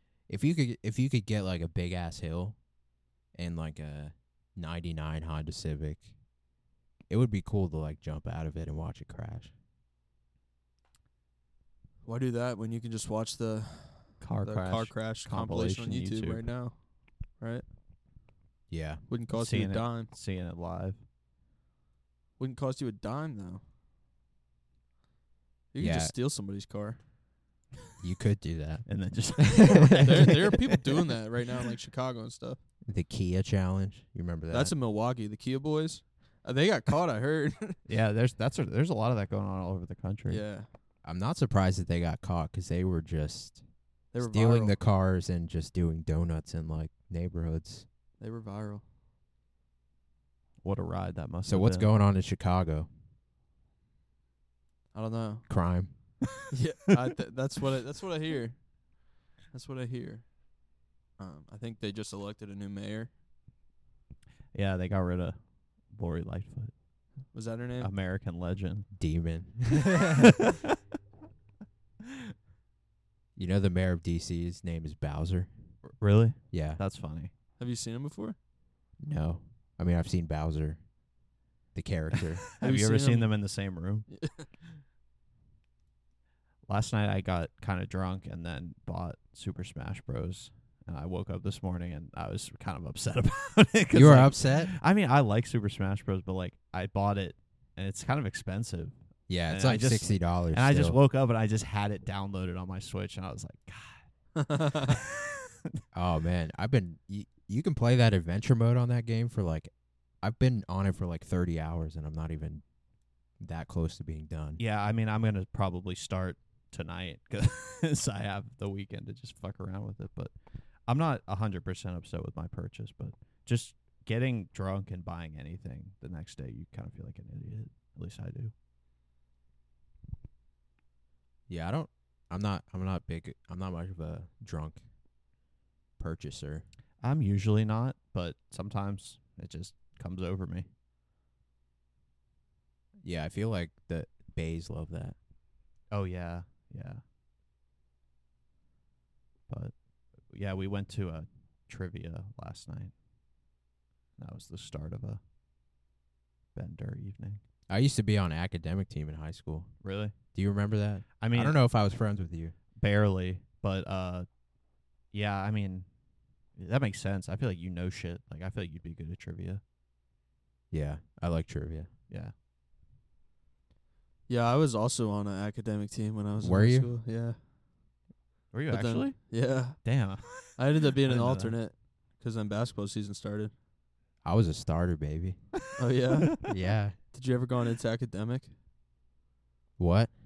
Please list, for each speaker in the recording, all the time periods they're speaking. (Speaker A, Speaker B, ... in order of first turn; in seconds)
Speaker A: 0.3-2.6, 3.4-6.1, 7.1-9.5, 18.7-19.0, 25.8-26.1, 28.0-28.9, 29.4-30.1, 32.9-34.7, 41.0-43.6, 44.2-47.9, 51.5-52.9, 55.5-55.9, 68.9-70.2, 73.4-75.5, 76.5-76.8, 79.0-80.8, 81.8-82.5, 93.9-94.7, 99.3-101.0, 105.9-109.7, 110.2-112.6, 113.4-114.6, 131.5-134.8, 136.0-136.7, 143.0-145.2, 157.7-159.7, 160.3-162.6, 170.7-171.9, 176.4-176.9, 184.2-185.4, 186.4-187.0, 189.8-190.1
Speaker B: 12.1-17.6, 19.1-20.1, 22.4-23.6, 25.7-27.0, 30.0-32.6, 34.5-37.8, 40.3-40.7, 44.1-44.8, 48.2-48.8, 54.9-55.5, 56.5-58.7, 59.5-60.4, 61.2-63.1, 67.3-67.9, 77.6-78.4, 82.6-83.3, 84.1-84.5, 104.4-105.0, 174.3-177.4, 178.7-179.8, 180.3-183.5, 185.8-186.4, 187.1-188.5
Speaker C: 14.2-16.5, 19.3-21.0, 28.9-30.4, 37.9-40.4, 50.6-51.9, 64.5-66.7, 67.8-68.9, 70.1-70.3, 76.0-77.3, 82.6-84.1, 86.7-99.0, 99.5-104.1, 104.9-105.3, 114.6-120.3, 120.9-128.5, 137.0-140.7, 145.9-147.0, 149.5-152.9, 154.2-155.2, 156.6-157.4, 159.8-160.1, 161.2-161.6, 162.8-164.3, 165.1-165.9, 166.6-169.6, 178.5-181.6